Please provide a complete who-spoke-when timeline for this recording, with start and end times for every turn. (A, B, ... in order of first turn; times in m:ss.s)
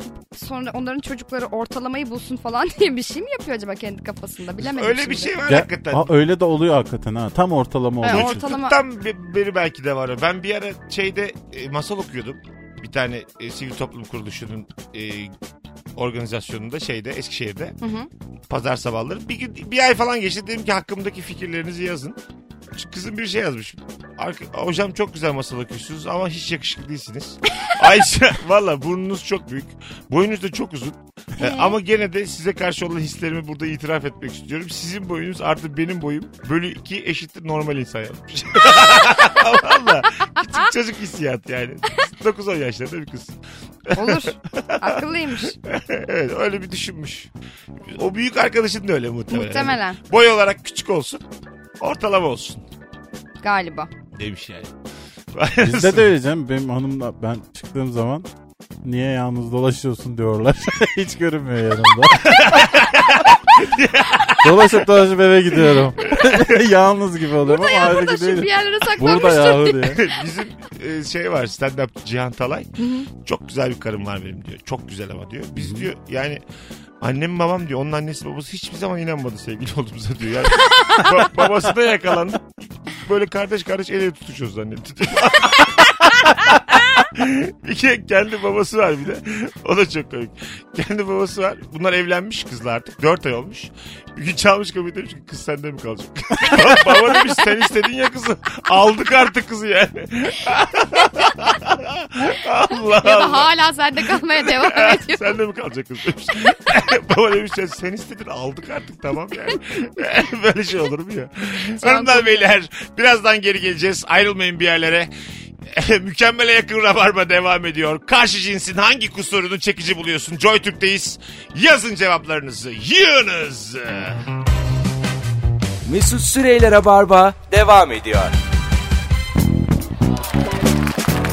0:00.3-0:05.4 A
0:04.6-0:06.1 B
0:05.5-0:08.4 C
0:08.0-0:08.8 A
0:08.1-0:15.3 B
0:16.0-0:17.8 B
0:17.8-0:18.1 A
0:18.5-0:22.2 B
0:22.7-0:43.3 B
0:31.4-0:31.8 A
0:38.8-0:39.2 A
0:43.9-0:47.3 B
0:43.9-0:45.6 A
0:47.9-0:51.2 B
0:49.3-0:50.0 A
0:51.8-0:52.6 B
0:53.4-0:53.9 A
0:54.1-0:54.7 B
0:55.3-0:56.1 B
0:55.6-0:58.3 C
0:58.8-1:02.7 C
1:02.2-1:04.7 B
1:04.4-1:10.0 C
1:06.0-1:06.6 B
1:07.4-1:10.2 A
1:09.9-1:16.4 B
1:12.8-1:13.1 A
1:15.6-1:15.9 C
1:17.0-1:43.5 B
1:20.7-1:21.1 A
1:42.9-1:45.4 A
1:44.3-1:55.1 B
1:51.8-1:52.5 A
1:55.7-2:04.2 B
2:05.8-2:08.3 D